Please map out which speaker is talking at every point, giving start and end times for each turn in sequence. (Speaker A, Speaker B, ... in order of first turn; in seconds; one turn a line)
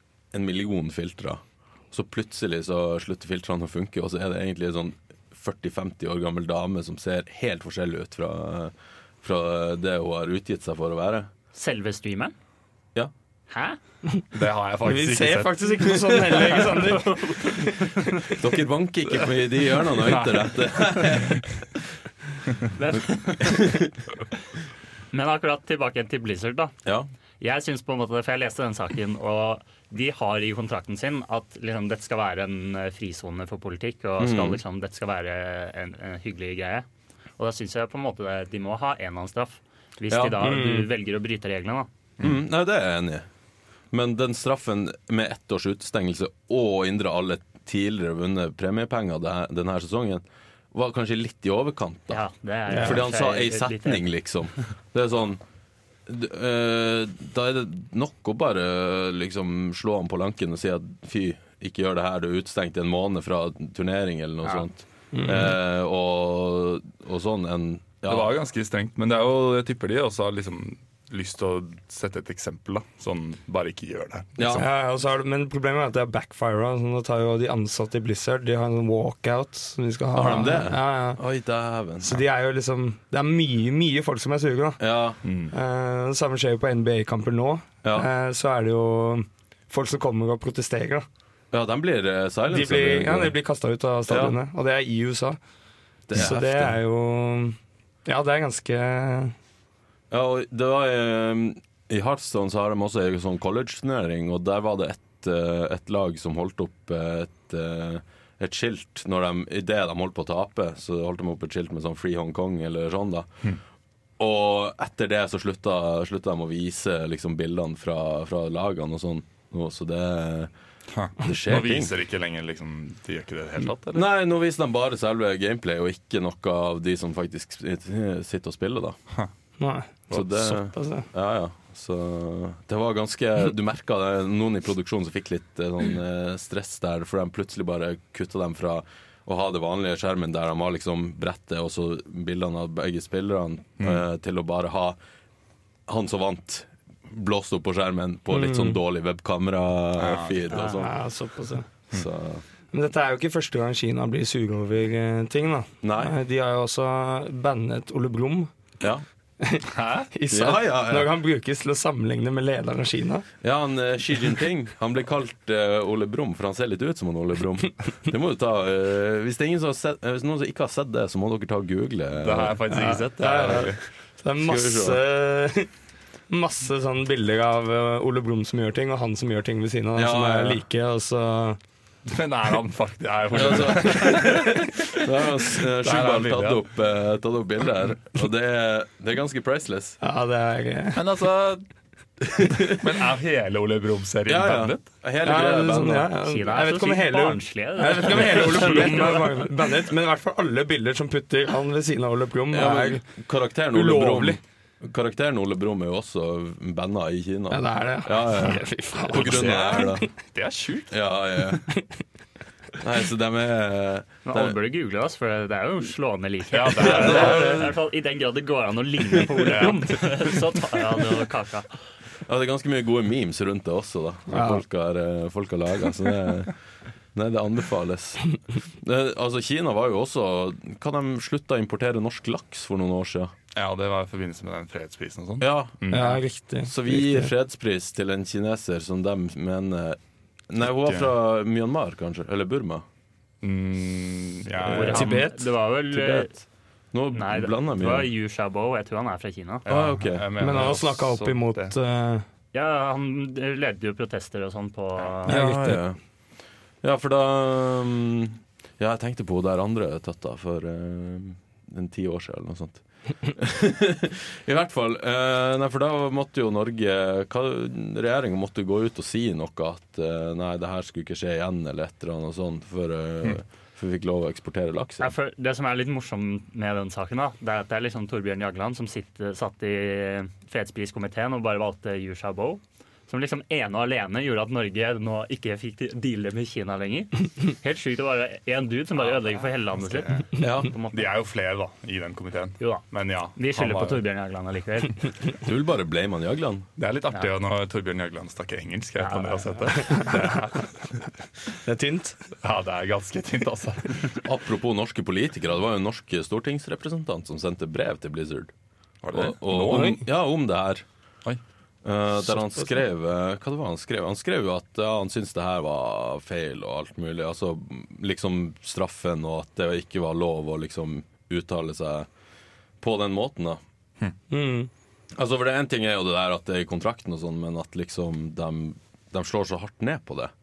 Speaker A: 0.3-11.3
Speaker B: 11.5-12.3
Speaker B: 13.5-13.8
Speaker C: 14.3-16.7
Speaker D: 14.8-18.3
Speaker A: 18.3-21.8
Speaker C: 19.9-21.4
Speaker B: 22.8-23.7
Speaker A: 22.9-23.9
Speaker B: 25.1-26.7
Speaker B: 27.4-36.9
Speaker A: 34.2-34.6
Speaker B: 37.4-41.9
Speaker A: 40.1-40.5
Speaker D: 40.4-40.9
Speaker A: 42.2-43.3
Speaker A: 43.9-52.2
Speaker B: 52.1-54.1
Speaker D: 52.7-53.0
Speaker A: 52.7-55.4
Speaker A: 56.1-68.3
Speaker D: 65.1-65.6
Speaker C: 68.1-74.6
Speaker A: 74.4-74.7
Speaker D: 74.5-81.2
Speaker A: 80.1-82.2
Speaker D: 82.0-84.8
Speaker A: 84.8-85.2
Speaker C: 85.2-85.5
Speaker D: 85.5-91.1
Speaker A: 91.5-93.3
Speaker D: 92.5-95.4
Speaker A: 94.1-94.4
Speaker A: 96.1-96.8
Speaker D: 96.1-99.3
Speaker A: 100.1-113.3
Speaker A: 114.2-120.5
Speaker C: 120.9-124.1
Speaker A: 121.2-121.9
Speaker A: 123.9-129.0
Speaker D: 129.6-131.1
Speaker A: 130.1-145.0
Speaker A: 145.9-150.9
Speaker D: 148.3-148.8
Speaker C: 150.0-150.4
Speaker D: 150.6-151.7
Speaker A: 151.9-152.4
Speaker D: 152.7-158.5
Speaker A: 155.8-156.2
Speaker D: 159.4-163.3
Speaker C: 159.7-160.1
Speaker A: 160.3-161.1
Speaker A: 163.4-172.6
Speaker C: 172.2-173.8
Speaker D: 172.7-175.7
Speaker A: 174.4-175.0
Speaker D: 176.3-181.6
Speaker A: 179.9-180.6
Speaker C: 182.1-186.6
Speaker A: 183.3-190.0
Speaker D: 190.0-191.0
Speaker C: 190.9-191.7
Speaker A: 192.2-192.8
Speaker C: 192.6-194.8
Speaker A: 194.3-196.1
Speaker D: 195.2-203.0
Speaker B: 196.2-199.5
Speaker A: 202.5-210.1
Speaker D: 203.7-204.4
Speaker D: 207.5-210.1
Speaker C: 209.1-211.0
Speaker A: 210.9-211.6
Speaker A: 212.8-214.6
Speaker B: 214.2-221.7
Speaker C: 216.5-217.7
Speaker A: 216.8-217.7
Speaker C: 219.5-220.2
Speaker A: 222.3-226.5
Speaker D: 224.3-224.6
Speaker A: 227.1-233.3
Speaker C: 233.5-236.2
Speaker A: 235.4-235.8
Speaker D: 235.9-237.3
Speaker A: 236.7-240.0
Speaker A: 240.5-242.8
Speaker C: 240.7-241.1
Speaker C: 243.4-245.3
Speaker D: 244.7-245.5
Speaker B: 244.7-246.3
Speaker A: 244.8-245.2
Speaker A: 245.9-248.1
Speaker B: 247.1-249.7
Speaker C: 249.7-251.8
Speaker A: 249.7-250.3
Speaker D: 250.4-252.3
Speaker B: 252.5-255.3
Speaker A: 255.3-256.0
Speaker D: 255.3-255.8
Speaker A: 256.8-275.1
Speaker B: 275.0-291.1
Speaker C: 289.0-290.2
Speaker A: 290.4-290.7
Speaker C: 290.9-294.0
Speaker B: 293.4-295.1
Speaker A: 295.4-296.7
Speaker C: 296.8-300.7
Speaker B: 299.0-299.7
Speaker D: 301.6-302.2
Speaker C: 302.4-304.2
Speaker A: 304.2-308.5
Speaker C: 309.0-310.0
Speaker A: 309.1-310.9
Speaker A: 311.8-322.1
Speaker A: 322.8-323.6
Speaker D: 324.3-324.7
Speaker A: 325.2-330.3